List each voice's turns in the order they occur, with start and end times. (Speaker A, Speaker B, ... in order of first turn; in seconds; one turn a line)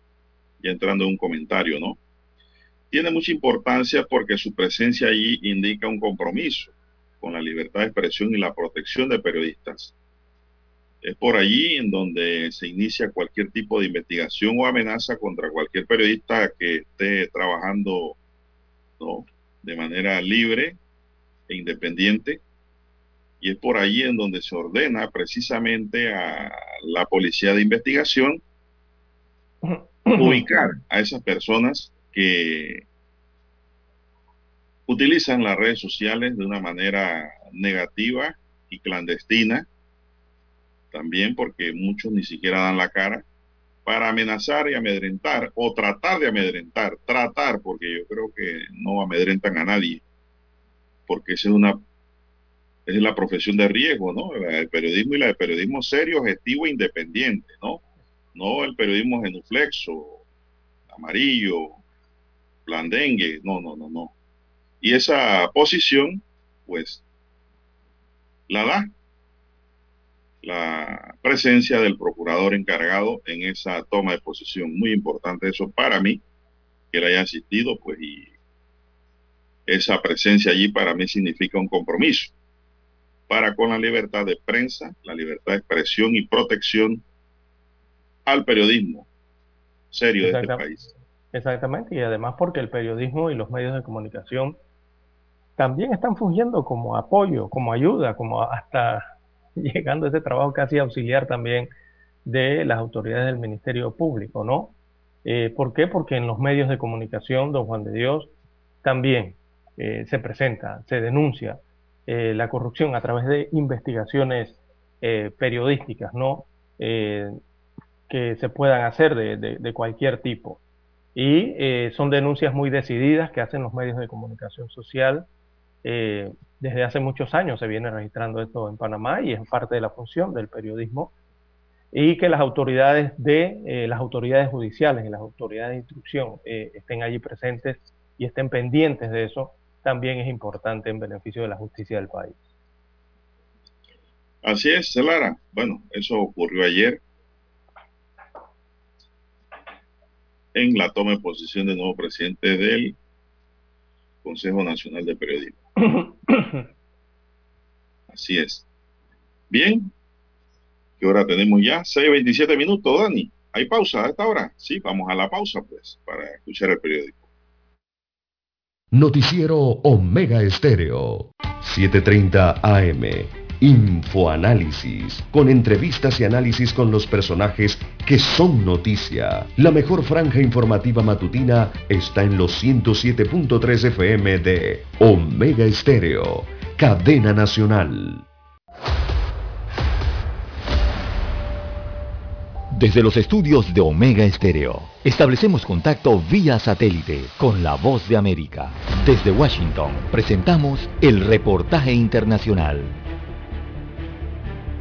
Speaker A: 0.6-2.0
Speaker A: 2.9-9.9
Speaker A: 11.0-18.2
Speaker A: 19.0-20.8
Speaker A: 21.5-22.4
Speaker A: 23.4-28.4
Speaker B: 29.6-30.5
Speaker A: 30.2-32.8
Speaker A: 34.9-39.7
Speaker A: 40.9-43.2
Speaker A: 43.9-50.0
Speaker A: 51.1-51.8
Speaker A: 52.9-57.8
Speaker A: 58.4-60.2
Speaker A: 60.9-61.8
Speaker A: 62.7-64.1
Speaker A: 64.8-67.0
Speaker A: 68.5-68.9
Speaker A: 70.4-76.2
Speaker A: 76.9-78.3
Speaker A: 79.7-82.3
Speaker A: 83.3-87.0
Speaker A: 88.3-89.1
Speaker A: 89.9-90.9
Speaker B: 90.2-90.6
Speaker B: 91.3-94.6
Speaker B: 95.6-99.0
Speaker B: 99.6-101.7
Speaker B: 102.2-104.7
Speaker B: 105.2-108.3
Speaker B: 108.8-117.4
Speaker B: 118.1-120.6
Speaker B: 121.2-125.3
Speaker B: 125.8-131.1
Speaker B: 131.9-142.4
Speaker A: 144.4-147.0
Speaker A: 150.5-153.0
Speaker A: 154.2-155.6
Speaker B: 155.8-156.7
Speaker A: 158.1-158.7
Speaker A: 159.5-159.9
Speaker A: 161.0-167.2
Speaker C: 168.9-188.2
Speaker D: 192.7-203.0